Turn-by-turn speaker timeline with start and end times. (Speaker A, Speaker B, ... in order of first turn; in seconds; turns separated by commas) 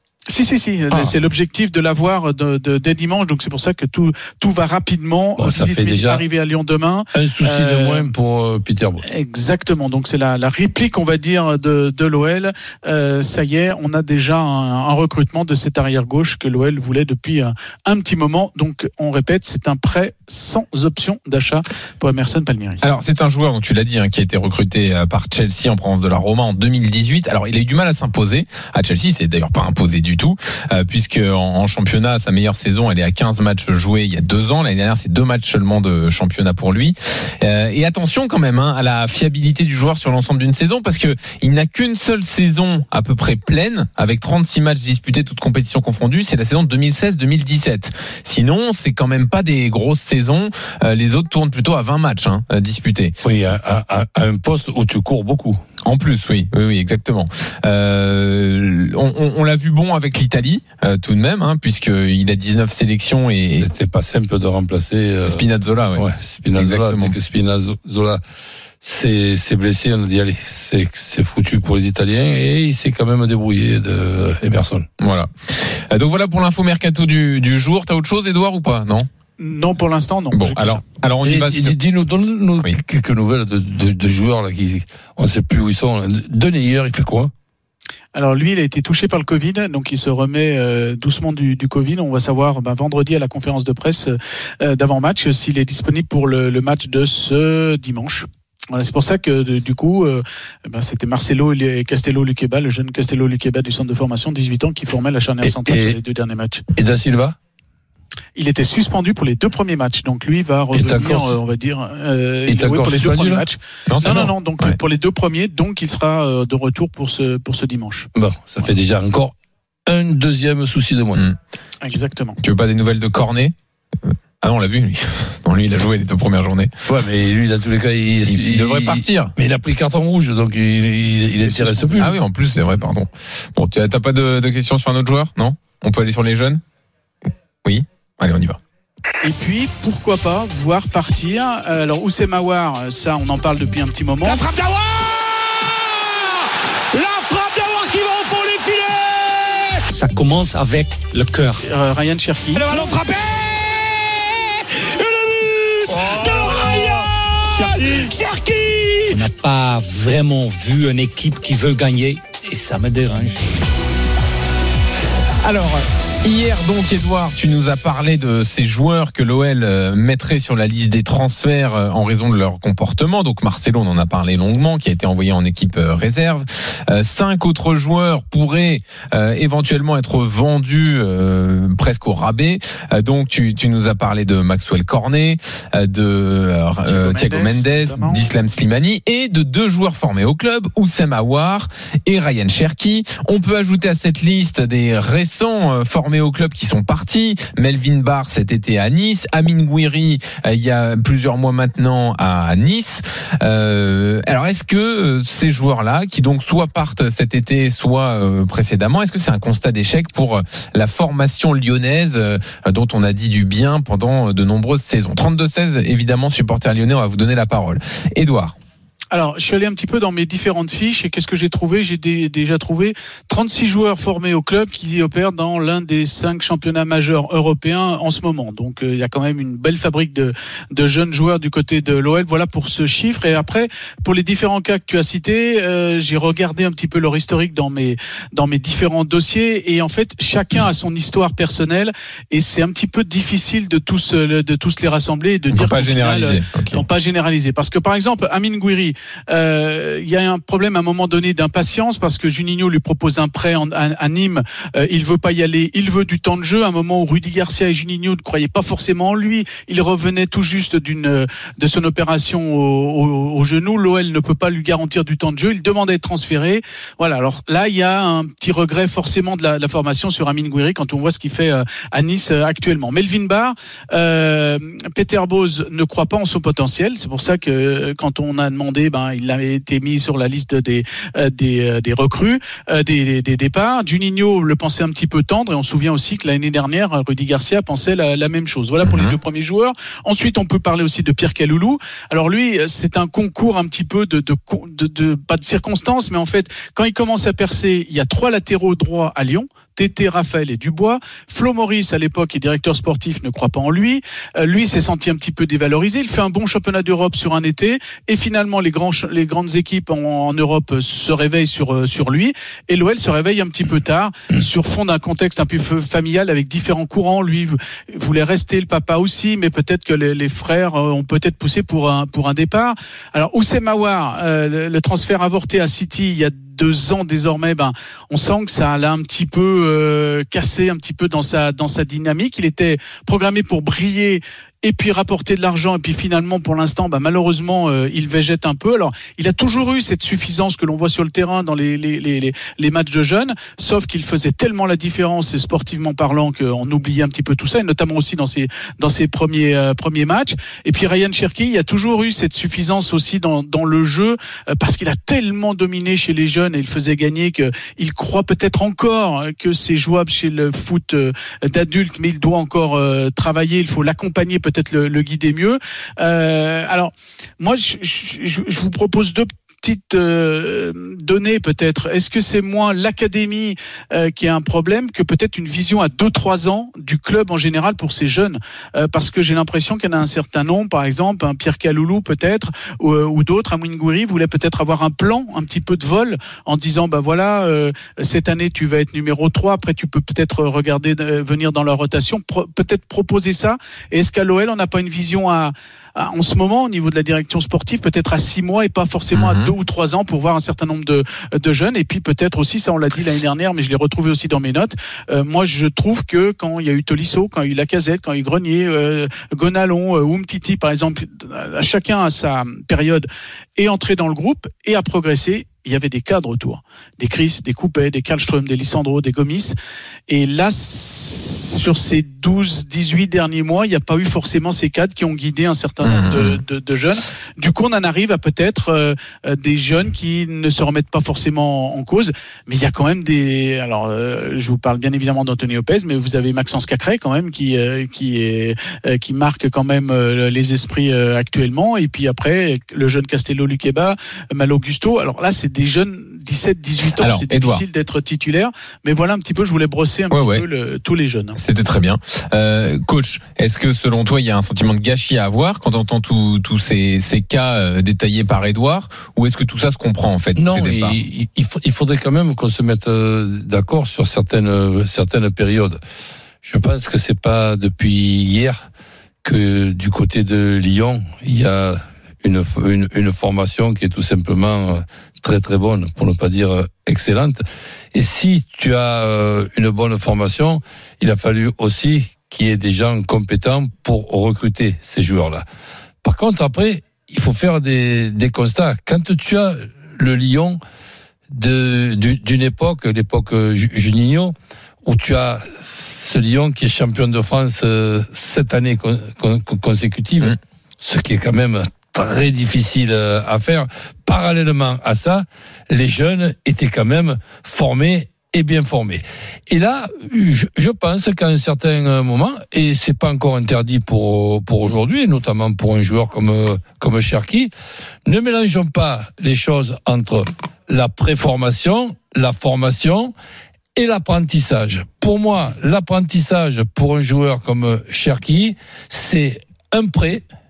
Speaker A: 0.3-8.1, Speaker B: 5.4-6.2, Speaker B: 7.1-9.0, Speaker A: 9.1-22.9, Speaker C: 22.8-53.1, Speaker B: 53.2-55.6, Speaker C: 55.9-63.7, Speaker B: 63.6-68.2, Speaker C: 65.2-67.2, Speaker B: 68.8-74.9, Speaker C: 75.0-79.1, Speaker A: 79.4-80.8, Speaker C: 80.3-81.8, Speaker B: 81.2-87.3, Speaker A: 88.2-106.6, Speaker B: 105.4-106.0, Speaker B: 106.8-107.4, Speaker A: 108.4-118.1, Speaker B: 110.7-111.4, Speaker B: 112.5-113.4, Speaker C: 113.9-114.8, Speaker B: 118.2-119.3, Speaker B: 119.9-121.2, Speaker A: 121.8-122.4, Speaker C: 122.4-123.5, Speaker C: 124.1-126.7, Speaker B: 126.9-132.1, Speaker C: 128.3-129.3, Speaker A: 131.4-132.1, Speaker C: 132.0-136.6, Speaker C: 137.6-138.6, Speaker A: 139.2-144.4, Speaker D: 144.2-149.8, Speaker E: 149.9-151.6, Speaker A: 151.6-152.7, Speaker D: 152.5-159.2, Speaker A: 157.5-158.0, Speaker E: 159.1-163.6, Speaker C: 165.4-218.6, Speaker A: 186.9-188.2, Speaker A: 219.1-419.6, Speaker C: 245.5-246.8, Speaker C: 288.8-289.2, Speaker C: 399.1-399.5, Speaker A: 420.1-451.4, Speaker C: 425.8-426.4, Speaker C: 446.9-447.6, Speaker C: 450.1-450.4, Speaker C: 451.4-461.0, Speaker B: 460.4-465.8, Speaker B: 466.4-468.6, Speaker B: 469.2-477.4, Speaker B: 477.9-485.4, Speaker B: 486.0-490.6, Speaker B: 491.3-494.3, Speaker B: 494.9-517.5, Speaker B: 518.1-523.1, Speaker B: 523.8-530.2